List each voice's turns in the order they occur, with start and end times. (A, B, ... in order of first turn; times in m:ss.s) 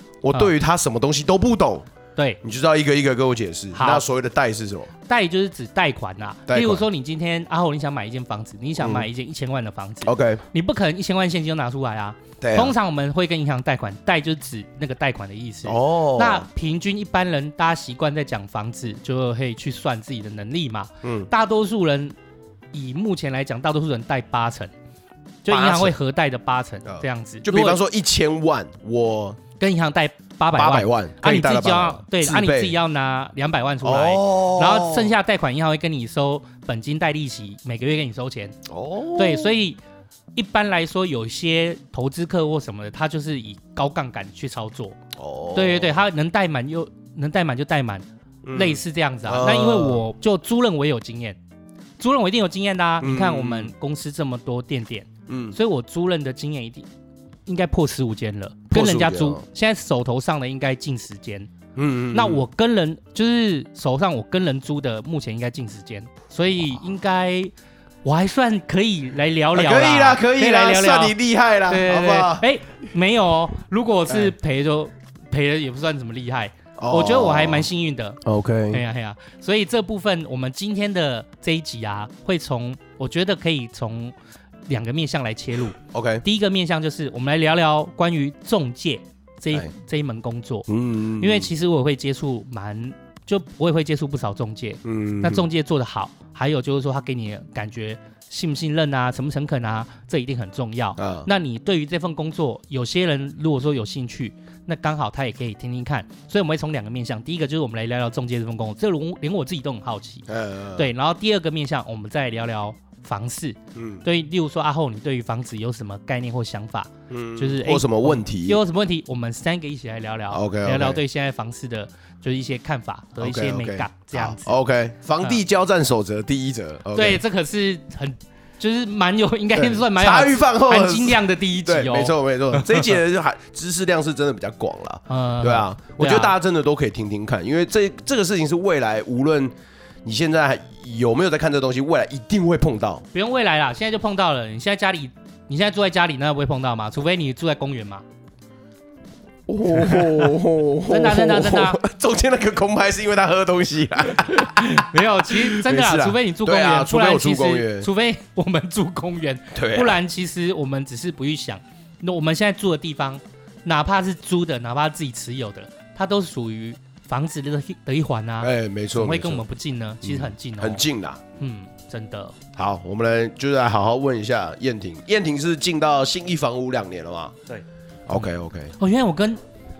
0:00.2-0:01.8 A
0:02.4-0:04.9 A
0:03.7-0:04.0 B
0:05.1-0:22.2 B
0:06.5-0:06.8 A
0:08.8-0:09.1 A
0:10.0-0:10.4 A
0:12.4-0:12.7 A
0:15.6-0:16.4 A
0:21.0-0:21.3 A
0:22.7-0:24.7 B
0:25.4-0:27.8 B
0:25.5-0:26.0 A
0:26.9-0:29.4 A
0:29.6-0:38.6 B
0:30.5-0:32.8 A
0:33.8-0:35.1 A
0:38.7-0:39.5 A
0:39.2-0:39.8 B
0:40.3-0:45.0 B
0:45.1-0:46.0 A
0:45.5-0:51.4 B
0:48.4-0:50.0 A
0:52.0-0:56.9 B
0:53.0-0:53.7 A
0:55.3-0:55.6 A
0:57.4-1:01.5 B
0:58.7-0:59.4 A
1:01.8-1:02.4 A
1:02.1-1:07.5 B
1:08.0-1:18.2 B
1:09.5-1:12.5 A
1:14.1-1:14.3 A
1:16.8-1:17.7 A
1:18.2-1:18.8 A
1:18.7-1:24.1 B
1:24.7-1:30.7 B
1:25.8-1:26.2 A
1:30.7-1:31.5 A
1:31.2-2:04.5 B
1:34.8-1:35.4 A
1:41.0-1:41.3 A
1:50.3-1:50.8 A
1:53.7-1:54.0 A
1:57.1-1:58.6 A
2:00.3-2:01.0 A
2:03.2-2:07.2 A
2:06.9-2:12.9 B
2:09.5-2:23.0 A
2:15.1-2:16.3 B
2:23.1-2:28.0 B
2:29.5-2:37.9 A
2:29.8-2:30.2 B
2:30.9-2:31.8 B
2:34.3-2:50.8 B
2:39.5-2:40.0 A
2:48.4-2:49.4 A
2:50.0-2:51.2 A
2:51.4-2:52.3 B
2:52.6-2:57.4 A
2:58.1-2:58.7 A
2:58.8-2:59.4 B